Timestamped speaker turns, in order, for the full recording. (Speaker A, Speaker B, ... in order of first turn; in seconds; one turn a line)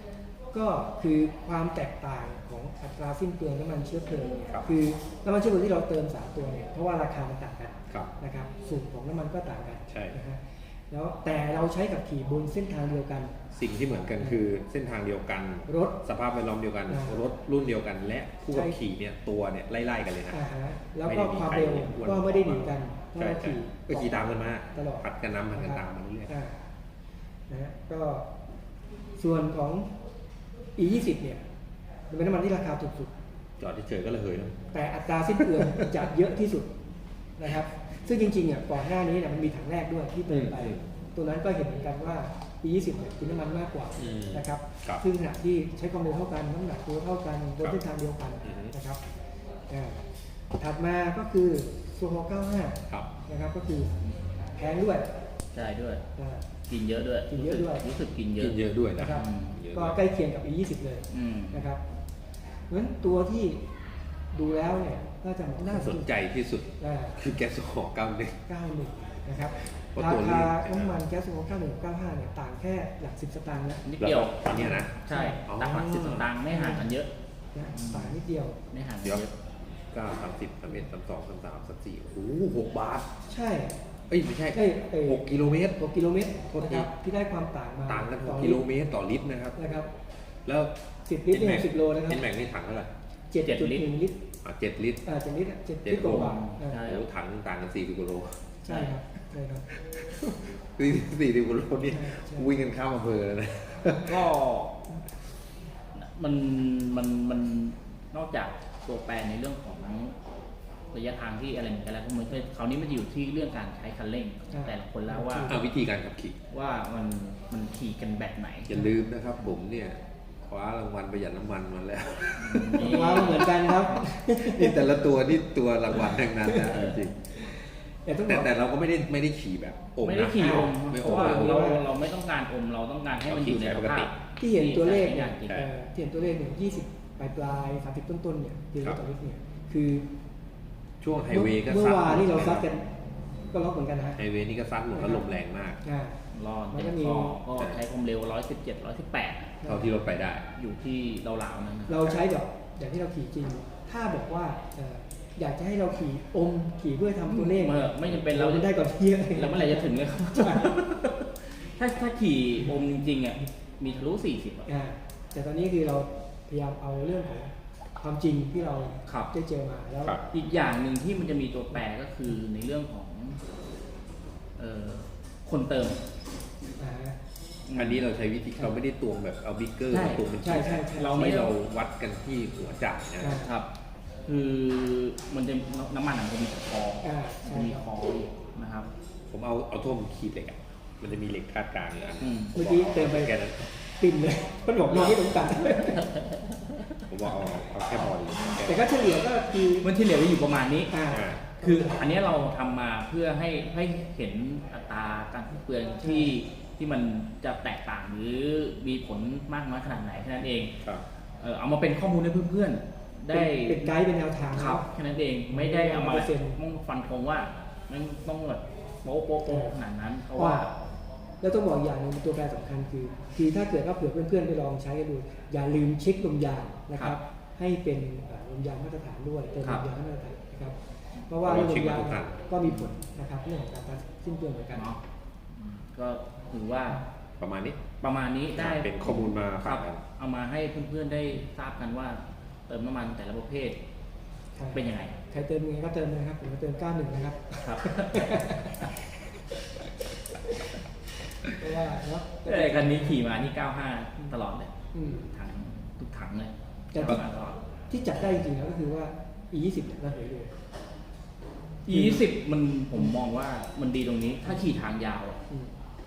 Speaker A: 0.5-13.3
Speaker B: 9.9-10.2
Speaker B: 13.5-20.4
Speaker A: 15.7-16.0
Speaker A: 16.9-17.1
Speaker A: 18.5-18.8
Speaker A: 20.3-24.1
Speaker B: 21.0-26.3
Speaker A: 24.7-26.6
Speaker A: 27.5-28.3
Speaker A: 29.2-29.9
Speaker A: 30.8-31.4
Speaker A: 32.1-33.1
Speaker B: 33.6-34.6
Speaker A: 34.7-36.7
Speaker B: 35.6-35.9
Speaker A: 37.4-49.0
Speaker B: 40.3-40.9
Speaker B: 44.0-45.0
Speaker B: 48.4-48.7
Speaker A: 49.7-50.0
Speaker A: 50.5-53.9
Speaker A: 54.5-55.1
Speaker C: 55.5-56.0
Speaker A: 56.1-56.5
Speaker C: 56.7-59.6
Speaker A: 57.3-57.9
Speaker B: 58.4-60.0
Speaker A: 59.0-61.8
Speaker C: 61.1-61.7
Speaker A: 62.7-63.6
Speaker A: 64.3-66.1
Speaker B: 65.6-68.4
Speaker A: 66.8-67.2
Speaker A: 68.5-73.8
Speaker B: 69.5-71.0
Speaker C: 73.8-77.1
Speaker B: 74.0-76.3
Speaker A: 74.5-75.4
Speaker A: 76.5-76.9
Speaker A: 77.5-78.6
Speaker C: 77.7-78.2
Speaker C: 78.7-79.3
Speaker B: 79.0-83.1
Speaker A: 83.3-83.8
Speaker B: 84.1-85.8
Speaker A: 84.5-85.2
Speaker A: 85.8-88.7
Speaker B: 86.5-86.9
Speaker B: 87.9-89.6
Speaker A: 89.5-89.9
Speaker B: 90.5-90.7
Speaker A: 91.0-92.2
Speaker B: 91.3-92.9
Speaker A: 93.3-94.2
Speaker C: 93.4-93.8
Speaker B: 94.4-95.0
Speaker A: 95.0-96.8
Speaker B: 95.8-98.4
Speaker C: 96.0-97.0
Speaker A: 98.6-99.7
Speaker C: 98.7-99.0
Speaker B: 99.8-104.3
Speaker A: 101.9-102.5
Speaker C: 104.0-104.8
Speaker C: 105.9-110.2
Speaker C: 110.9-115.6
Speaker A: 114.5-115.6
Speaker B: 115.4-116.4
Speaker C: 116.5-118.8
Speaker B: 118.7-123.3
Speaker C: 122.4-124.0
Speaker A: 122.8-125.0
Speaker B: 124.2-127.5
Speaker A: 126.1-126.8
Speaker C: 126.6-127.1
Speaker A: 128.0-128.5
Speaker B: 128.2-131.6
Speaker C: 130.0-135.7
Speaker A: 130.4-131.8
Speaker B: 133.2-134.1
Speaker A: 134.4-140.1
Speaker B: 141.0-142.7
Speaker A: 141.3-142.8
Speaker A: 143.5-144.2
Speaker B: 144.2-145.8
Speaker A: 144.9-145.3
Speaker A: 145.8-146.2
Speaker C: 146.3-149.6
Speaker A: 146.7-147.4
Speaker B: 147.6-147.8
Speaker A: 149.6-149.9
Speaker B: 149.6-150.5
Speaker C: 150.5-152.2
Speaker A: 151.9-160.9
Speaker C: 157.3-164.7
Speaker A: 164.7-170.2
Speaker C: 170.3-173.4
Speaker C: 174.6-176.0
Speaker A: 176.8-177.2
Speaker C: 177.7-178.0
Speaker B: 177.7-183.4
Speaker C: 179.9-181.5
Speaker A: 180.4-181.4
Speaker A: 183.2-183.5
Speaker C: 183.4-183.7
Speaker C: 184.2-188.9
Speaker A: 187.0-187.8
Speaker B: 189.3-193.7
Speaker C: 192.2-192.6
Speaker A: 192.5-196.1
Speaker C: 194.9-196.3
Speaker B: 197.1-198.9
Speaker A: 198.6-199.9
Speaker C: 199.8-201.0
Speaker A: 200.9-202.1
Speaker B: 201.1-201.5
Speaker C: 201.6-210.8
Speaker A: 206.0-206.3
Speaker C: 211.4-213.9
Speaker A: 213.3-214.9
Speaker C: 214.5-220.7
Speaker A: 215.5-216.6
Speaker A: 219.4-219.7
Speaker A: 220.3-220.7
Speaker A: 221.4-230.8
Speaker A: 231.3-234.8
Speaker B: 231.4-232.4
Speaker C: 232.6-232.9
Speaker C: 235.5-237.0
Speaker B: 237.4-237.8
Speaker C: 238.0-243.8
Speaker B: 238.5-240.0
Speaker A: 244.6-248.9
Speaker C: 244.7-245.2
Speaker C: 247.6-248.4
Speaker A: 251.4-253.5
Speaker C: 252.4-257.6
Speaker A: 254.9-255.3
Speaker A: 256.9-257.2
Speaker A: 257.9-260.5
Speaker C: 261.9-265.4
Speaker A: 261.9-262.3